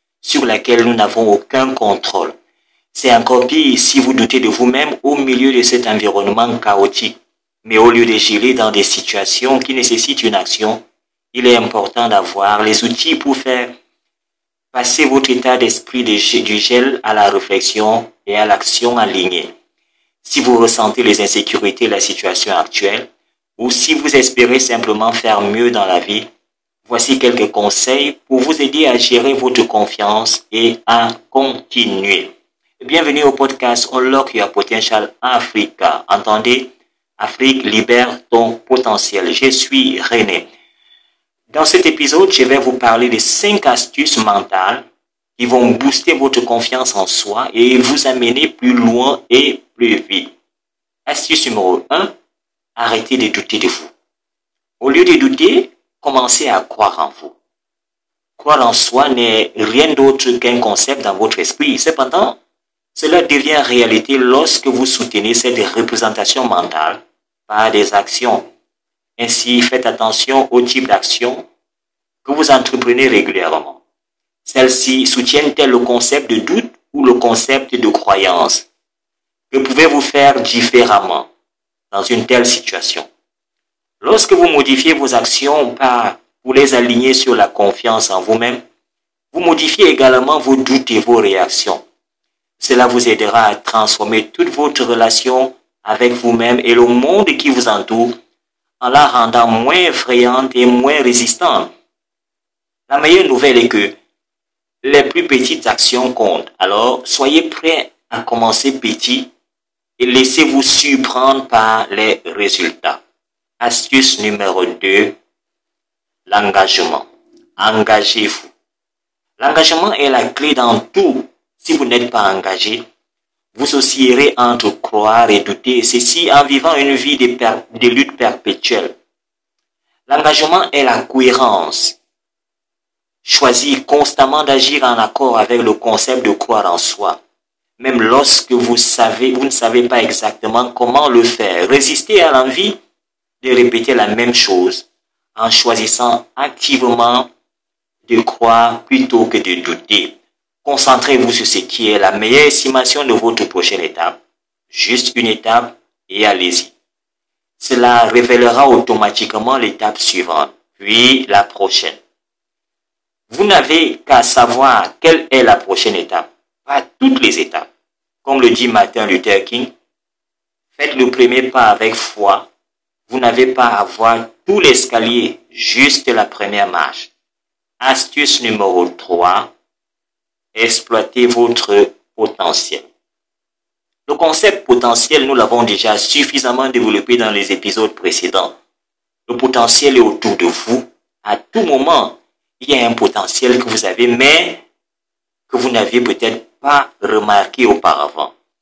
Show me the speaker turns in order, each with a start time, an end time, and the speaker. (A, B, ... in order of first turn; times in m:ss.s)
0:00.2-0:02.3 A
0:02.9-0:10.8 A
0:11.3-0:13.8 A
0:14.7-0:19.5 A
0:20.2-0:26.3 A
0:26.8-0:40.5 A
0:41.5-0:44.8 A
0:45.4-0:50.3 A
0:51.0-0:52.1 A
0:52.8-0:53.9 A
0:54.8-0:57.3 A
0:58.4-1:02.4 A
1:02.9-1:08.5 A
1:09.2-1:11.4 A
1:12.2-1:13.8 A
1:14.4-1:18.7 A
1:19.5-1:21.3 A
1:21.9-1:23.1 A
1:24.0-1:28.6 A
1:29.3-1:31.8 A
1:32.6-1:38.2 A
1:38.8-1:41.7 A
1:42.9-1:44.0 A
1:44.8-1:49.3 A
1:50.0-1:53.0 A
1:53.6-1:55.2 A
1:56.2-1:58.5 A
1:59.4-2:02.8 A
2:03.5-2:08.9 A
2:10.1-2:12.0 A
2:13.2-2:17.2 A
2:17.8-2:22.8 A
2:23.4-2:27.3 A
2:28.1-2:34.2 A
2:34.7-2:36.7 A
2:37.6-2:42.0 A
2:43.3-2:47.7 A
2:48.2-2:49.7 A
2:50.7-2:52.5 A
2:53.1-2:57.1 A
2:57.8-2:59.5 A
3:00.5-3:02.9 A
3:04.1-3:08.6 A
3:09.3-3:14.6 A
3:15.5-3:18.3 A